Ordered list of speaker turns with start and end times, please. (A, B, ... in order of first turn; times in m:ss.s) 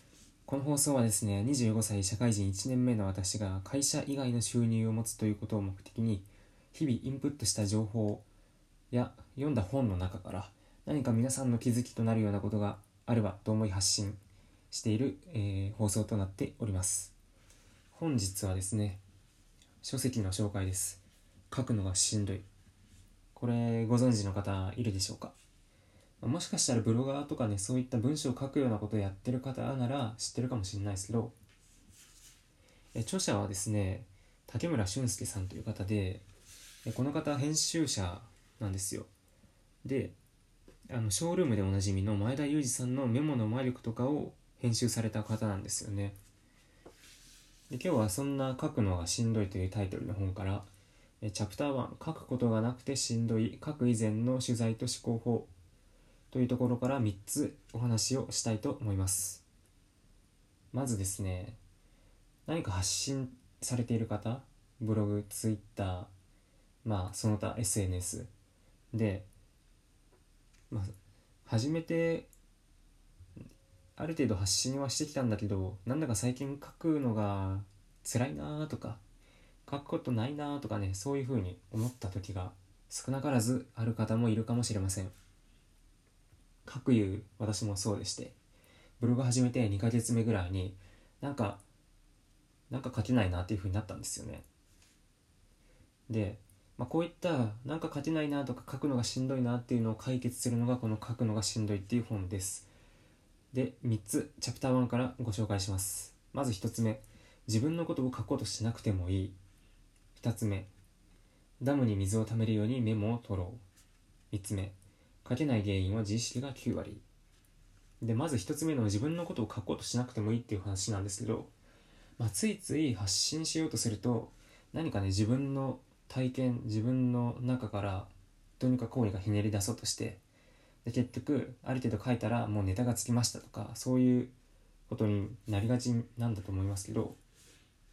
0:00.4-0:08.2 A
0:08.9-0:17.1 A
0:17.9-0:19.0 A
0:19.8-0:22.5 A
0:23.3-0:25.4 A
0:26.2-0:31.3 A
0:32.9-0:36.2 A
0:36.8-0:39.1 A
0:39.8-0:40.1 A
0:40.9-0:46.2 A
0:47.7-0:50.7 A
0:51.2-0:55.5 A
0:56.3-0:59.4 A
1:00.7-1:01.6 A
1:02.5-1:06.1 A
1:06.8-1:08.3 A
1:08.9-1:09.3 A
1:11.4-1:12.3 A
1:14.0-1:19.0 A
1:19.7-1:25.1 A
1:26.6-1:28.4 A
1:29.0-1:31.6 A
1:32.7-1:34.4 A
1:36.1-1:42.7 A
1:43.5-1:49.4 A
1:50.2-1:50.7 A
1:51.6-1:53.6 A
1:54.3-1:57.0 A
1:58.0-2:01.5 A
2:02.2-2:10.2 A
2:10.8-2:14.3 A
2:14.9-2:17.2 A